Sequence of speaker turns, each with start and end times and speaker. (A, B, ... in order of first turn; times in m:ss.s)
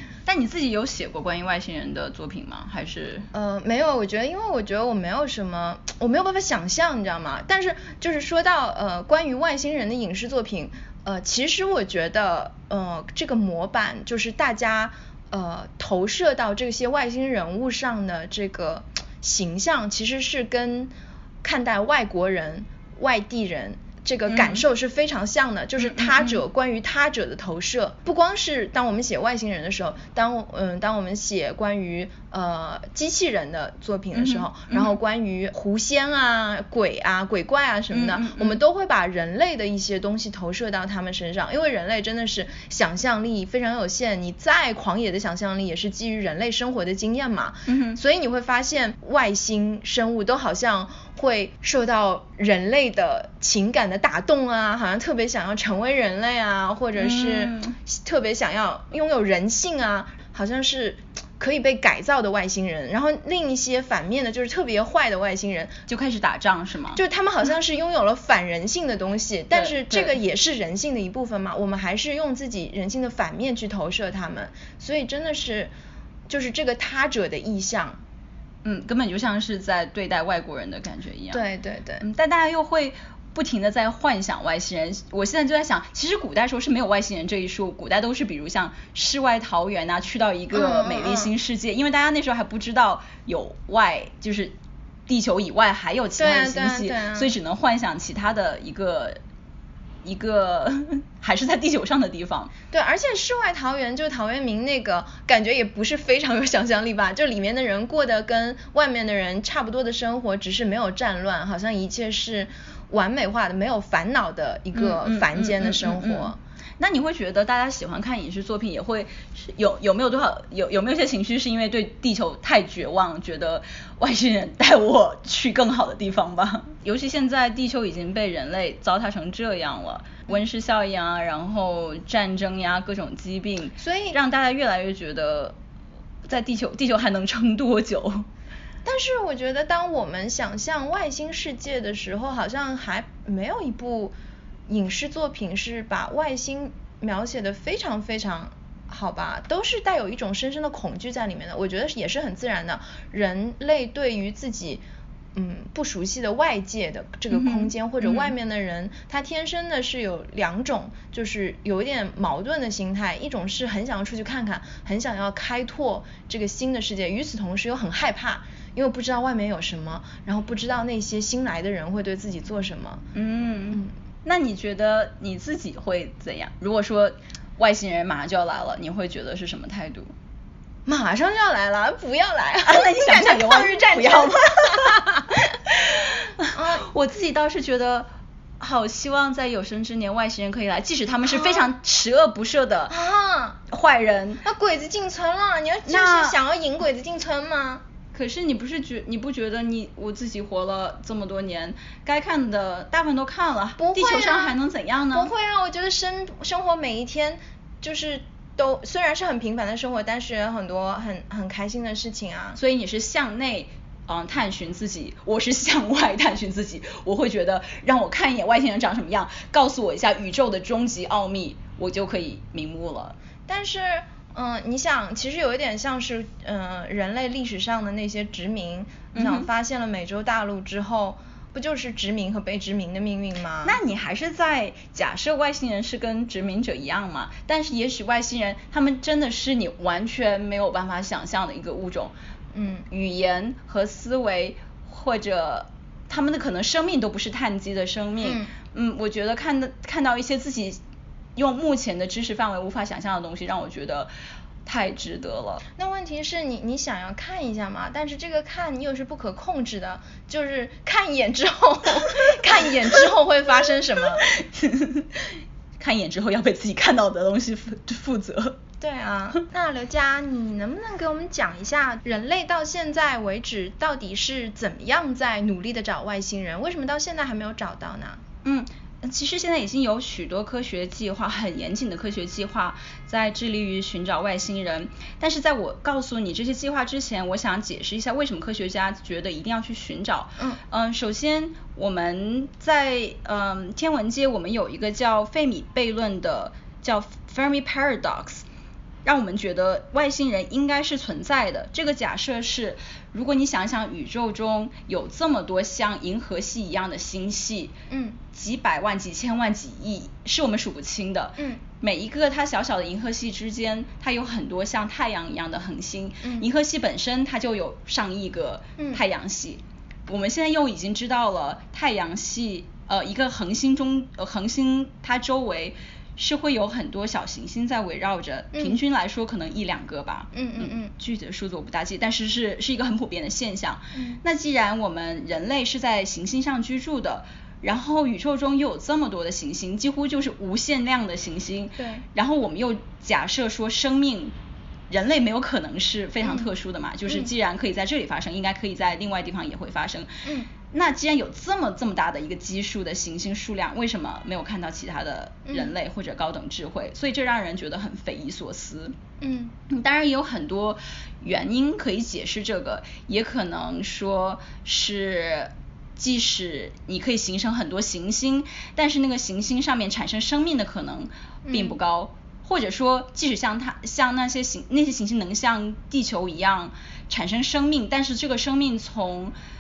0:00.3-0:03.3 A
0:03.3-1:05.8 B
0:24.3-0:24.6 A
0:25.8-0:26.4 A
0:34.2-0:35.0 A
0:37.9-0:38.6 A
0:47.7-0:48.0 A
0:57.0-0:57.8 A
1:05.9-1:07.0 A
1:07.0-1:15.7 B
1:09.5-1:10.2 A
1:16.3-1:18.0 B
1:18.6-1:21.4 A
1:21.3-1:22.0 B
1:22.0-1:34.6 A
1:30.5-1:31.3 B
1:35.1-1:39.2 A
1:36.2-1:37.3 B
1:40.0-1:42.5 A
1:42.7-1:56.4 B
1:54.7-2:15.6 A
2:13.8-2:14.2 B
2:16.2-2:18.3 A
2:18.8-2:24.1 B
2:24.7-2:34.8 B
2:35.4-2:53.0 B
2:37.3-2:38.3 A
2:53.1-3:00.1 A
3:00.9-3:05.5 B
3:02.7-3:05.0 A
3:05.7-3:08.1 A
3:06.5-3:06.9 B
3:08.6-3:12.9 A
3:11.2-3:11.7 B
3:12.9-3:13.6 B
3:13.7-3:14.4 A
3:14.4-3:17.8 B
3:15.9-3:16.4 A
3:18.1-3:25.3 A
3:23.8-3:24.6 B
3:25.1-3:32.6 B
3:32.6-3:43.2 A
3:43.5-3:53.8 B
3:49.1-3:49.5 A
3:53.6-4:02.1 A
4:02.5-4:02.9 B
4:02.9-4:10.8 A
4:08.2-4:08.5 B
4:11.4-4:14.1 A
4:14.6-4:15.6 A
4:15.8-4:24.2 B
4:24.2-4:28.6 A
4:28.8-4:38.2 B
4:38.4-4:58.5 A
4:59.0-5:07.7 A
5:07.9-5:08.2 B
5:08.3-5:44.4 A
5:11.4-5:11.6 B
5:30.3-5:30.9 B
5:33.9-5:34.2 B
5:41.8-5:42.0 B
5:44.9-5:59.0 A
5:46.2-5:46.5 B
5:50.2-5:50.5 B
5:55.5-5:55.7 B
5:59.2-5:59.5 B
5:59.7-6:19.3 A
6:11.4-6:11.8 B